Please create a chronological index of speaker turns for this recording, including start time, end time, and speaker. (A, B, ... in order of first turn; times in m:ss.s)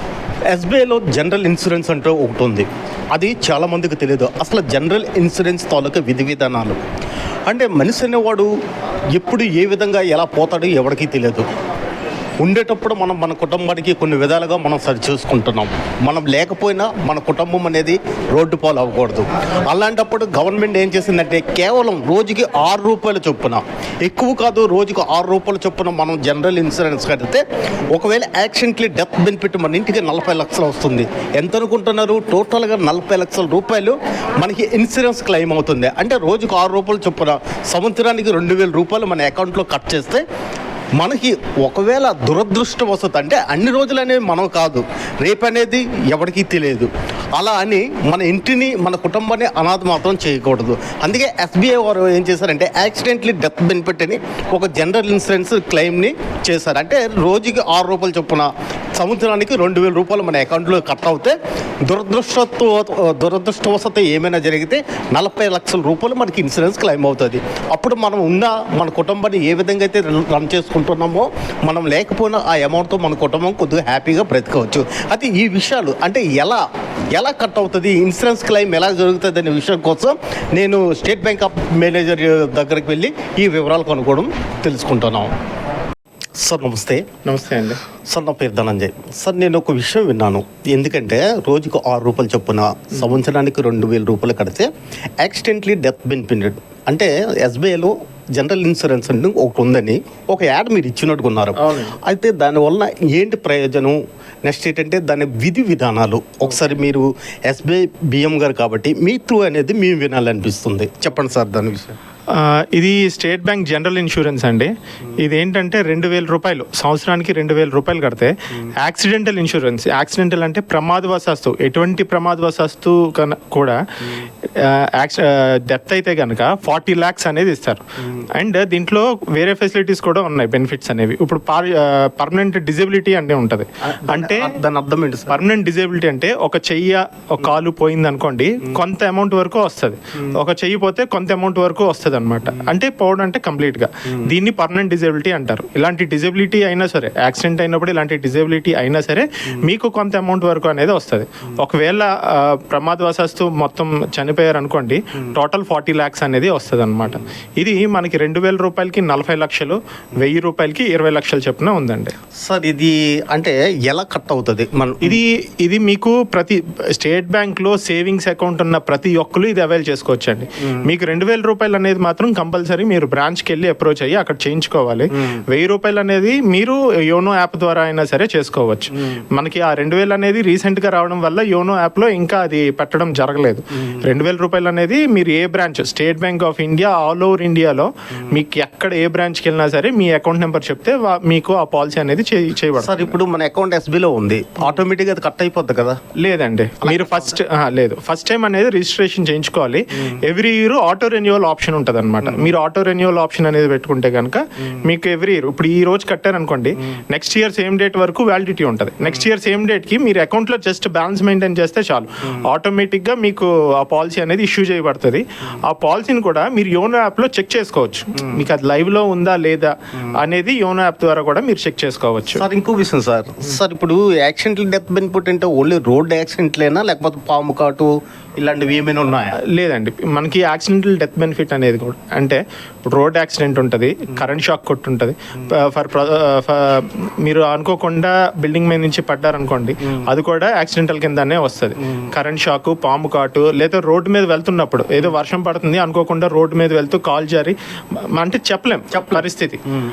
0:00.5-0:06.8 A
0:07.5-0:08.5 A
0:09.1-0:11.5 A
0:12.4-0:40.2 A
0:41.0-1:16.6 A
1:17.1-1:25.3 A
1:26.4-1:27.1 A
1:27.2-1:27.8 B
1:28.1-1:34.7 A
1:35.2-1:52.0 A
1:41.6-1:42.0 B
1:52.3-2:14.5 B
2:14.0-2:15.4 A
2:15.3-2:42.2 B
2:42.4-2:45.2 A
2:45.0-3:13.2 B
3:12.8-3:16.0 A
3:16.2-3:42.4 B
3:42.4-3:49.4 A
3:49.5-4:09.6 B